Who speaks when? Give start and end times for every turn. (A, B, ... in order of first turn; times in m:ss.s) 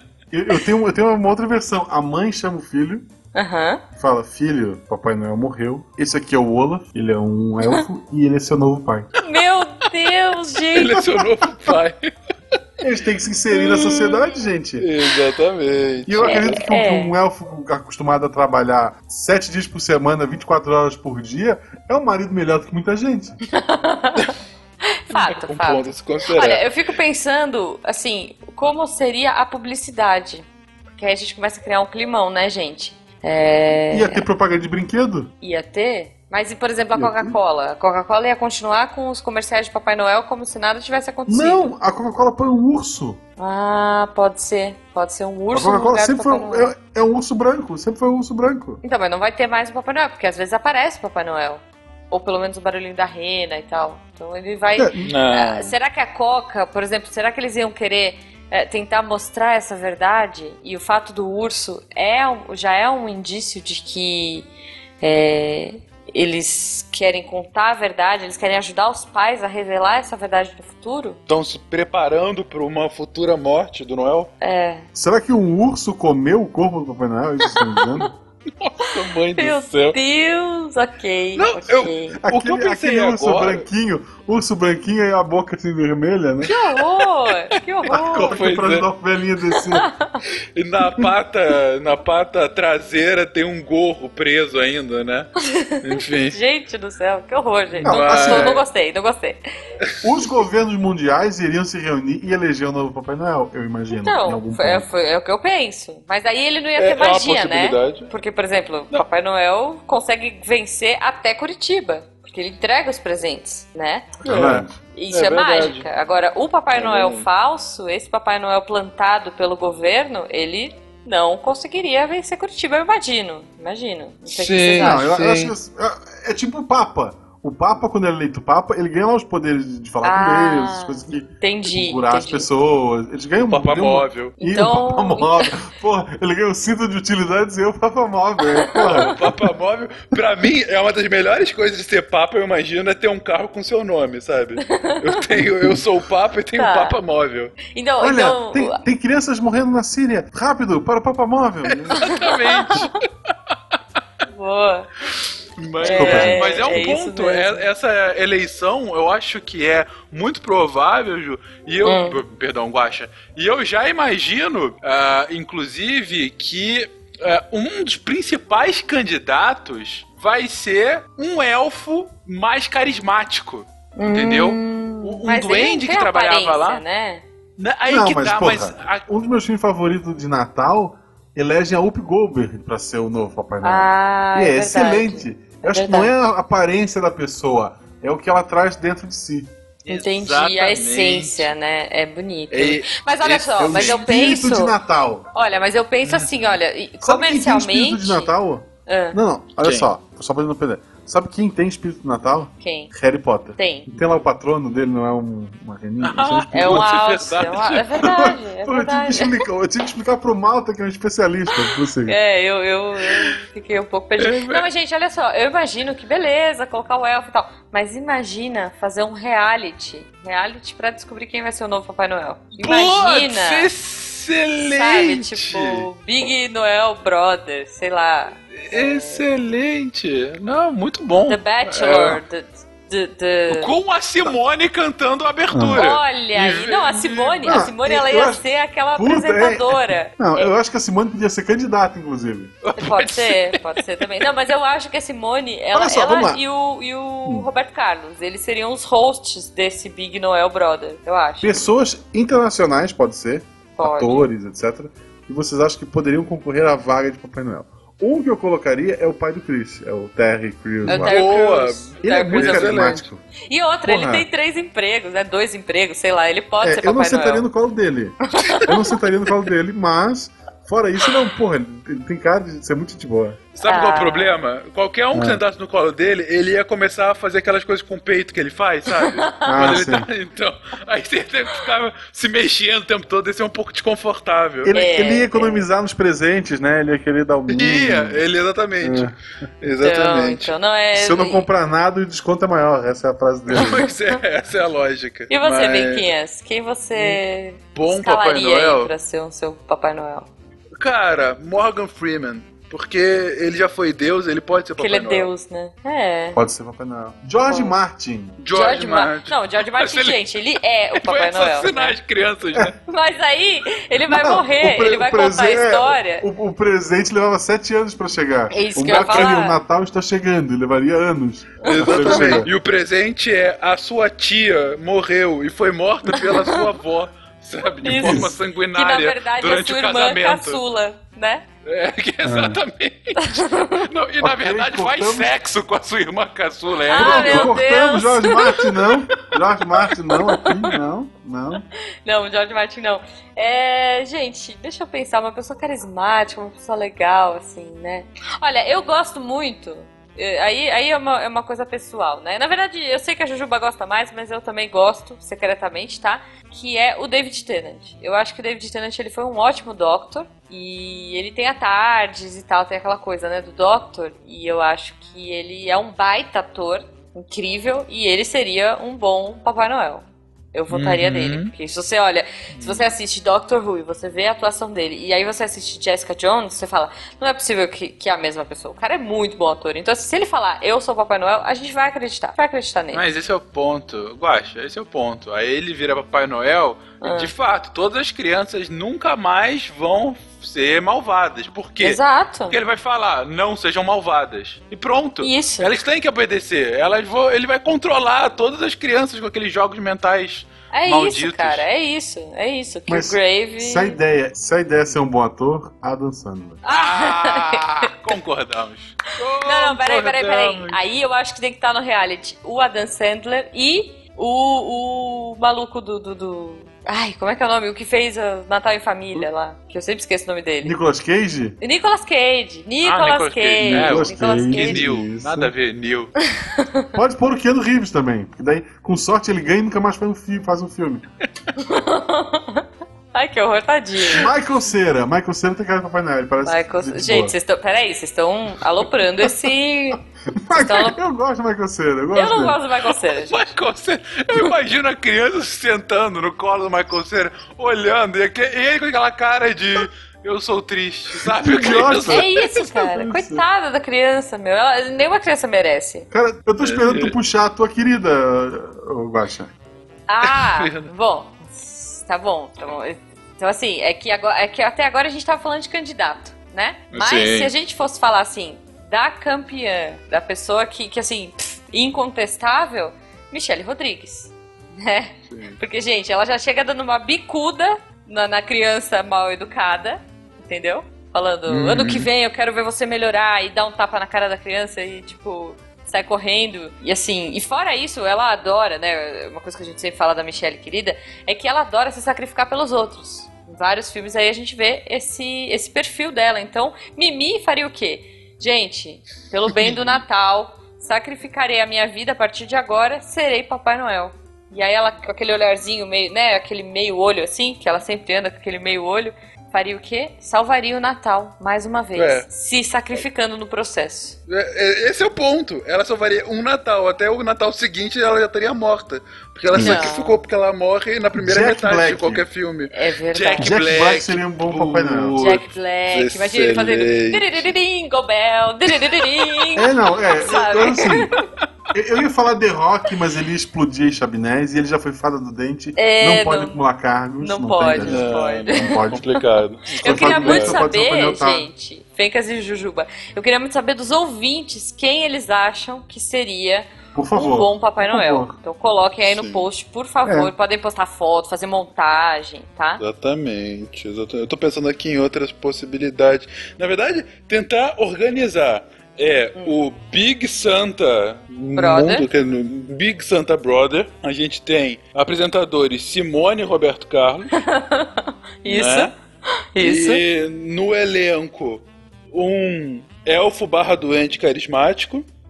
0:00.3-0:03.1 A
0:03.3-0:03.8 B
0:04.0-0:09.1 A
0:09.2-0:11.1 B
0:10.7-0:12.1 C
0:12.8-0:14.9 A
0:13.5-0:14.3 C
0:14.8-0:16.6 C
0:16.1-0:23.4 A
0:16.2-0:17.2 B
0:23.5-0:24.3 B
0:24.9-0:30.5 B
0:25.1-0:26.7 C
0:31.0-0:34.2 B
0:33.9-0:35.3 A
0:35.4-0:41.7 B
0:37.0-0:37.4 A
0:41.3-0:43.2 A
0:43.4-0:46.7 B
0:45.5-0:48.8 A
0:48.8-1:04.5 B
0:54.8-0:55.1 A
0:55.0-0:55.7 C
1:05.0-1:11.2 B
1:11.3-1:14.3 C
1:14.4-1:14.9 B
1:14.9-1:18.1 A
1:18.6-1:20.0 C
1:18.9-1:22.2 B
1:21.4-1:23.7 C
1:22.2-1:26.5 A
1:26.4-1:28.4 B
1:26.8-1:28.9 C
1:27.9-1:29.9 A
1:29.7-1:30.2 B
1:30.6-1:36.4 C
1:35.4-1:39.4 B
1:37.8-1:38.6 C
1:37.8-1:38.6 A
1:40.0-1:44.9 A
1:43.9-1:54.2 B
1:46.8-1:48.1 C
1:54.2-1:55.9 C
1:54.2-1:54.8 A
1:54.9-2:05.0 B
1:56.7-1:57.3 C
2:04.3-2:05.5 C
2:04.8-2:19.3 A
2:10.0-2:12.5 B
2:13.5-2:14.3 C
2:14.4-2:15.5 B
2:18.4-2:19.1 B
2:18.8-2:27.6 C
2:24.7-2:25.2 B
2:25.4-2:25.8 A
2:26.6-2:27.0 B
2:27.7-2:28.8 B
2:28.0-2:32.1 A
2:31.7-2:33.0 C
2:32.0-2:32.9 B
2:34.3-2:34.9 B
2:35.6-2:56.8 C
2:35.8-2:37.7 B
2:35.9-2:36.4 A
2:41.8-2:42.2 B
2:54.0-2:57.2 B
2:57.6-2:59.1 C
2:57.9-3:09.5 A
3:03.6-3:06.1 B
3:09.8-3:11.5 C
3:09.9-3:14.8 B
3:12.5-3:14.0 C
3:13.6-3:15.3 A
3:15.3-3:18.3 B
3:16.0-3:16.3 C
3:17.0-3:26.9 A
3:18.9-3:19.2 B
3:19.6-3:19.9 C
3:22.6-3:22.9 B
3:23.6-3:23.9 B
3:26.0-3:28.0 C
3:26.5-3:29.4 B
3:28.0-3:32.2 A
3:32.1-3:43.7 B
3:34.2-3:34.7 C
3:42.6-3:45.9 C
3:44.6-3:49.2 B
3:48.5-3:52.2 C
3:51.3-3:53.7 B
3:53.5-3:57.7 C
3:55.5-3:55.8 A
3:55.8-4:00.2 B
3:57.4-3:58.4 A
3:59.0-4:02.5 A
4:02.6-4:04.3 C
4:02.8-4:11.7 B
4:05.7-4:06.4 A
4:11.4-4:21.2 A
4:13.8-4:14.3 B
4:20.9-4:23.0 C
4:20.9-4:27.5 B
4:22.0-4:23.2 A
4:23.8-4:24.3 A
4:26.6-4:33.4 A
4:28.4-4:28.8 B
4:33.5-4:44.7 C
4:33.6-4:34.4 B
4:35.1-4:35.4 A
4:39.3-4:39.6 B
4:39.5-4:40.1 A
4:44.6-4:48.2 A
4:44.7-4:45.7 B
4:47.5-4:50.5 C
4:48.8-4:49.2 A
4:49.8-4:51.5 B
4:50.9-4:53.9 A
4:53.5-4:56.1 C
4:53.6-4:53.8 B
4:55.3-5:00.3 B
4:57.0-4:57.2 C
4:57.8-4:58.9 C
5:00.8-5:05.3 C
5:04.8-5:06.4 B
5:06.4-5:08.4 A
5:07.5-5:07.8 B
5:08.4-5:10.3 C
5:08.5-5:12.0 B
5:11.0-5:12.8 C
5:12.8-5:16.3 B
5:14.1-5:22.5 A
5:18.5-5:19.6 B
5:21.6-5:22.5 B
5:21.6-5:30.6 C
5:26.1-5:26.6 B
5:27.8-5:31.4 B
5:27.9-5:28.3 A
5:31.6-5:37.5 C
5:32.2-5:32.6 A
5:33.2-5:33.9 B
5:34.2-5:35.3 A
5:36.9-5:38.6 B
5:36.9-5:41.6 A
5:42.0-6:23.0 B
6:10.7-6:11.5 C
6:12.5-6:12.9 C
6:22.9-6:41.7 C
6:27.0-6:27.3 B
6:31.8-6:32.6 B
6:35.2-6:35.7 B
6:40.7-6:44.0 B
6:42.9-6:46.6 A
6:46.6-6:47.9 B
6:46.7-6:50.8 C
6:49.4-7:00.8 B
7:00.6-7:01.6 A
7:01.6-7:04.9 B
7:02.8-7:06.3 C
7:03.6-7:05.5 A
7:06.3-7:06.9 B
7:07.0-7:11.0 A
7:11.6-7:14.3 B
7:14.1-7:17.3 A
7:16.4-7:20.0 B
7:20.4-7:22.6 A
7:20.6-7:21.0 B
7:22.1-7:23.5 B
7:23.0-7:32.8 C
7:31.2-7:32.3 A
7:32.1-7:36.1 B
7:32.9-7:33.4 A
7:36.1-7:39.5 A
7:36.6-7:37.2 C
7:40.1-8:34.2 B
7:40.2-7:40.9 C
7:46.9-7:47.5 C
7:55.3-7:55.6 C
8:01.5-8:02.1 C
8:32.0-8:32.3 C
8:34.3-8:47.5 C
8:39.5-8:39.9 A
8:39.6-8:40.2 B
8:41.2-8:42.2 A
8:42.7-8:43.5 B
8:43.4-8:45.2 A
8:45.2-8:49.7 B
8:48.8-8:49.6 C
8:49.6-8:51.1 A
8:50.2-8:51.3 B
8:51.7-8:59.1 A
8:55.8-8:56.6 B
8:57.2-8:59.2 B
8:57.8-9:00.6 C
8:59.8-9:12.8 B
8:59.8-9:01.5 A
9:06.9-9:08.3 A
9:09.1-9:09.5 C
9:10.0-9:10.3 A
9:12.8-9:27.3 C
9:21.6-9:22.1 B
9:27.3-9:28.9 B
9:28.4-9:28.9 C
9:29.5-9:30.0 B
9:29.6-9:35.1 C